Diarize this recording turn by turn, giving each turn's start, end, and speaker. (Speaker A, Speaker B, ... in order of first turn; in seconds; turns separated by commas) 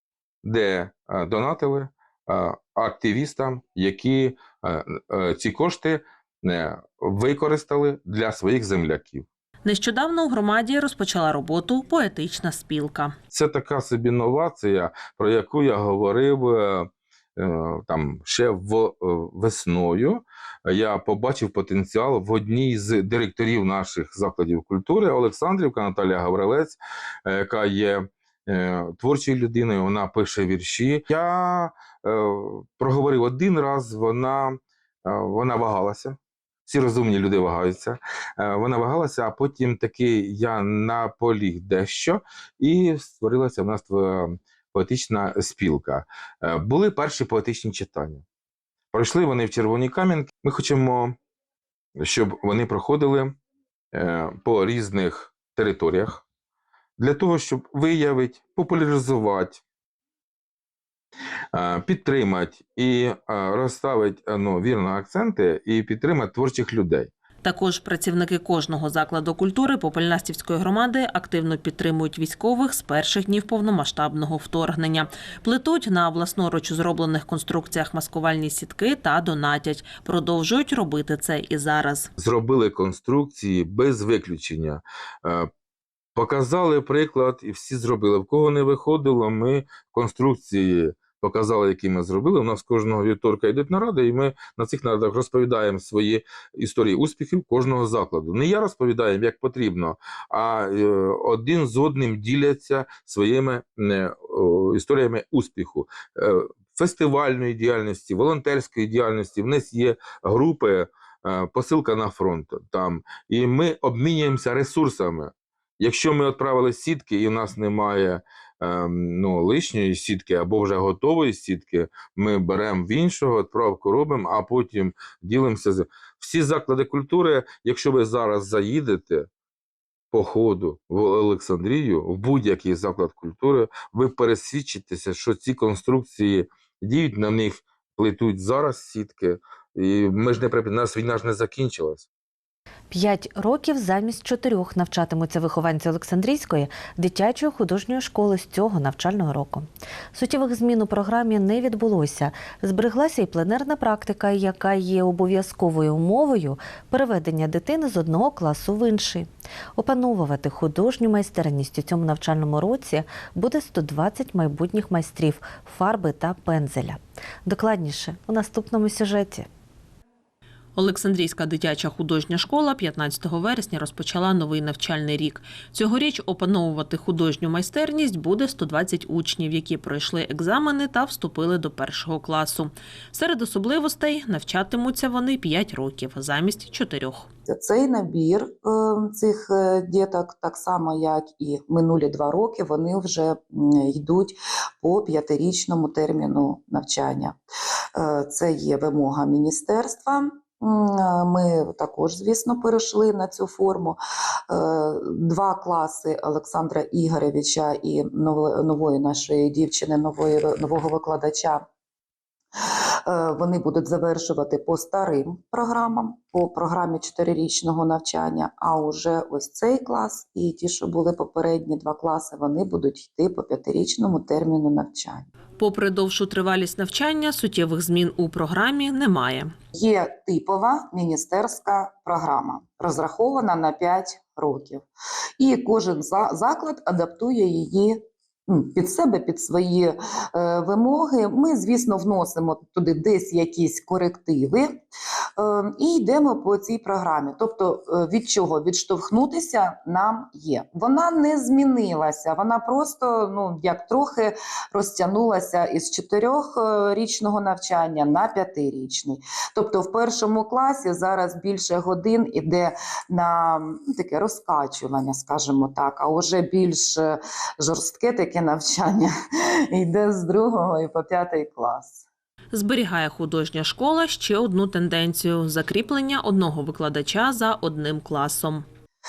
Speaker A: 0.4-9.2, Speaker B: 9.6-13.1, Speaker A: 13.3-48.2, Speaker A: 48.9-51.1, Speaker A: 52.0-53.4, Speaker A: 53.9-56.2, Speaker A: 57.0-59.6, Speaker A: 61.5-67.1, Speaker B: 67.4-82.1, Speaker A: 82.2-85.5, Speaker A: 86.2-129.3, Speaker A: 130.1-142.1, Speaker C: 142.9-169.5, Speaker B: 170.8-187.3, Speaker D: 187.5-197.4, Speaker D: 197.9-211.6, Speaker D: 212.6-225.3, Speaker B: 225.6-229.5, Speaker D: 229.7-234.8, Speaker D: 235.4-244.8, Speaker D: 245.4-269.1, Speaker D: 269.7-272.0, Speaker B: 272.5-278.6